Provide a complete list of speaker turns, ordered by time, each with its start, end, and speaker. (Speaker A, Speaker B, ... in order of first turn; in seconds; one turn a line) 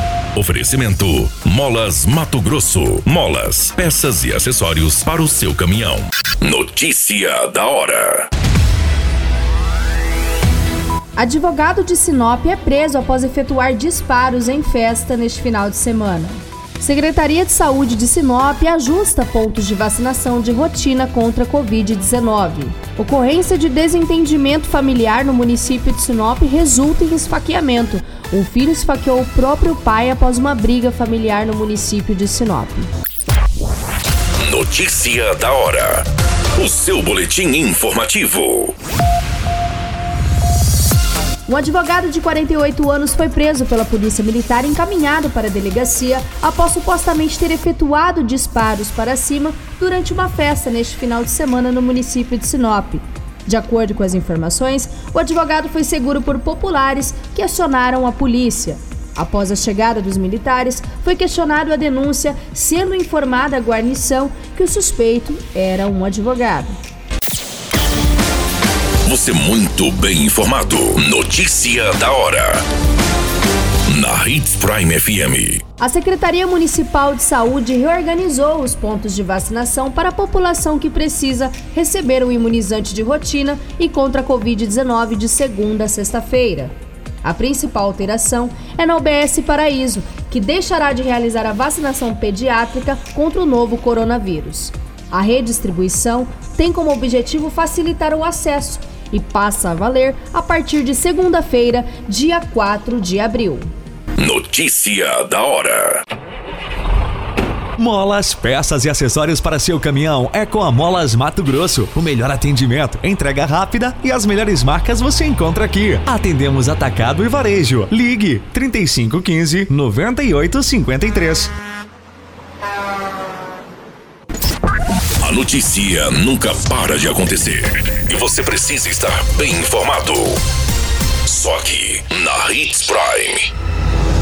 Speaker A: 0.3-8.3
Speaker B: 11.2-32.9
Speaker A: 34.4-36.0
Speaker A: 36.6-38.7
Speaker B: 41.5-66.8
Speaker A: 69.0-72.6
Speaker A: 73.9-75.6
Speaker B: 75.8-103.7
Speaker A: 104.2-106.0
Speaker C: 107.8-121.5
Speaker A: 125.2-130.4
Speaker A: 131.2-133.5